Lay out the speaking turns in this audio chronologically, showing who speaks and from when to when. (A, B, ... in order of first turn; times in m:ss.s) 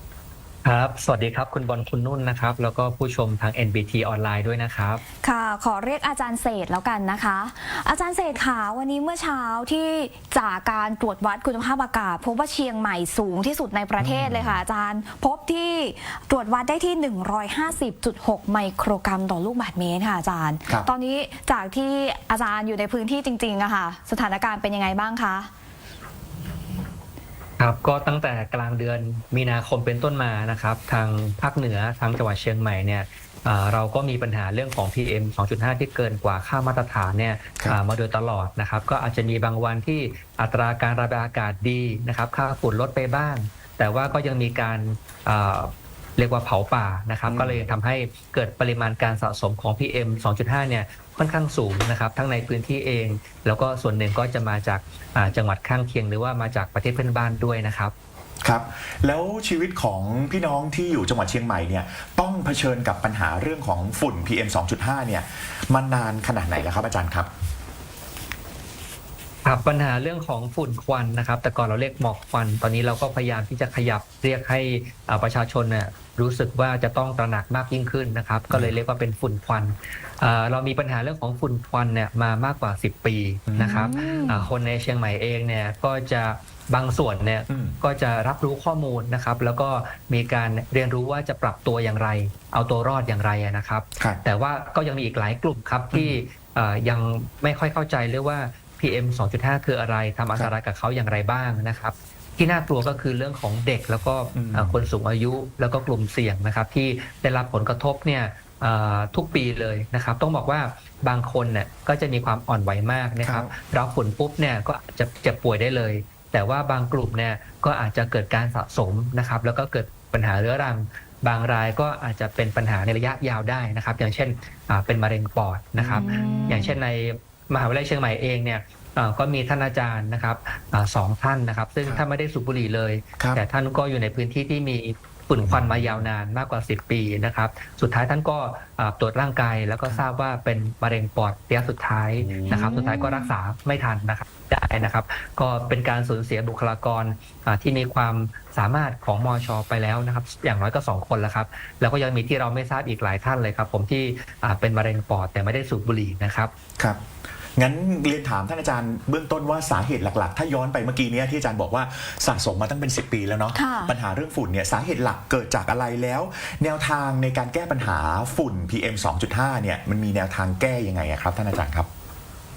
0:00.6-0:05.0 A
0:05.2-0:25.5 B
0:14.0-0:14.6 C
0:27.6-0:57.9 A
0:47.3-0:47.6 C
0:58.4-1:07.3 C
1:09.4-2:36.5 A
1:23.5-1:24.3 C
1:23.6-1:24.5 B
1:27.5-1:27.8 C
1:35.9-1:36.2 C
1:44.3-1:44.8 C
1:53.2-1:53.5 C
2:05.8-2:06.2 C
2:05.9-2:06.8 B
2:13.2-2:13.4 C
2:15.4-2:16.0 C
2:22.2-2:22.9 C
2:22.5-2:23.3 B
2:37.6-2:51.9 C
2:43.5-2:43.9 B